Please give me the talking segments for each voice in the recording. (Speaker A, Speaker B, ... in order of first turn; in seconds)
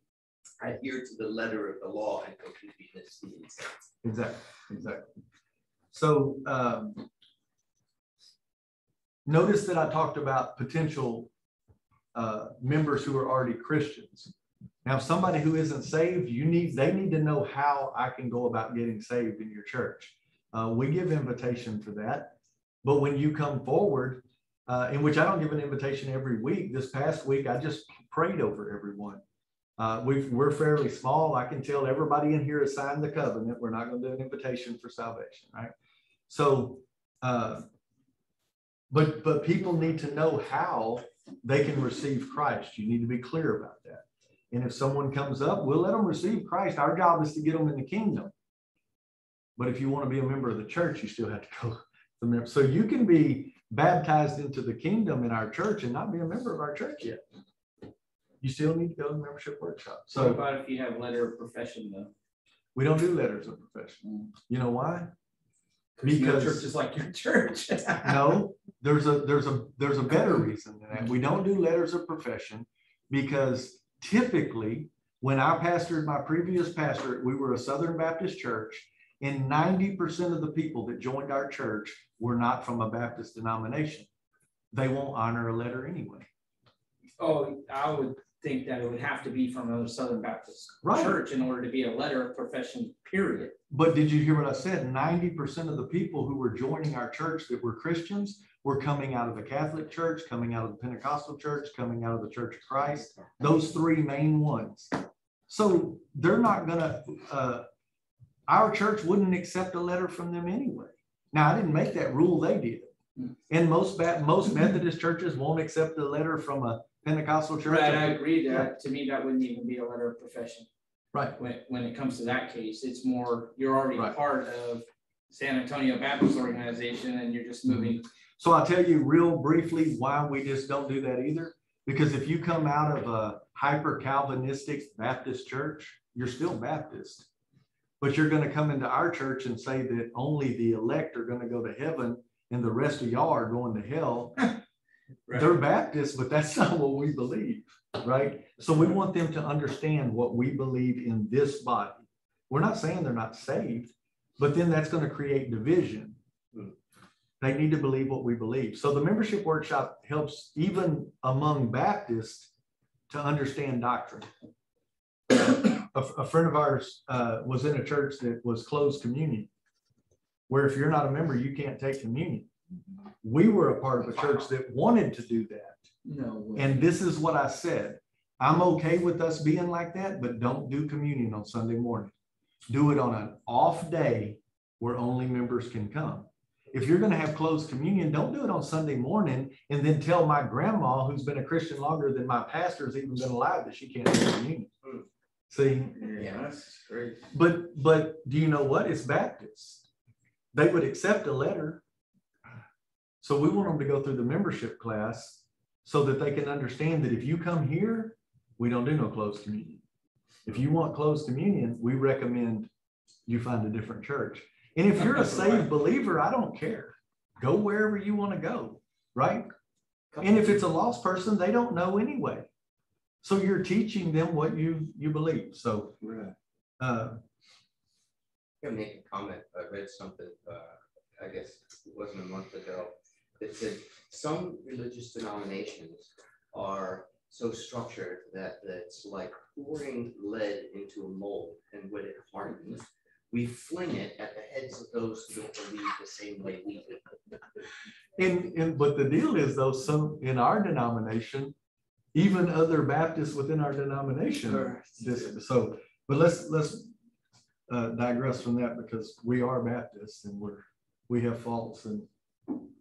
Speaker A: 0.6-3.7, 196.2-197.2, 220.1-220.4, 226.0-226.3, 228.6-247.1, 254.5-255.3
Speaker B: 4.0-5.0, 5.9-7.0, 9.2-11.3, 12.1-14.3, 14.8-29.2, 29.8-35.7, 36.3-37.6, 38.9-48.3, 49.6-57.2, 58.4-60.4, 62.7-65.1, 66.0-66.7, 68.0-84.1, 84.7-86.3, 90.8-91.2, 93.7-104.9, 105.5-107.7, 108.5-112.9, 113.5-118.7, 127.7-137.3, 138.0-144.5, 145.3-156.2, 157.4-162.5, 163.1-164.3, 165.3-169.5, 170.5-172.5, 173.2-175.8, 176.6-182.1, 182.7-194.7, 195.5-196.1, 197.3-199.8, 200.5-201.8, 203.2-209.8, 210.4-212.7, 213.3-219.5, 220.2-222.5, 223.2-225.9, 226.8-227.2, 248.2-251.5, 252.1-256.9, 257.7-262.1
Speaker C: 60.1-62.1, 66.0-68.4, 87.2-93.5, 117.7-120.7, 121.3-128.0, 176.0-176.8, 196.1-196.8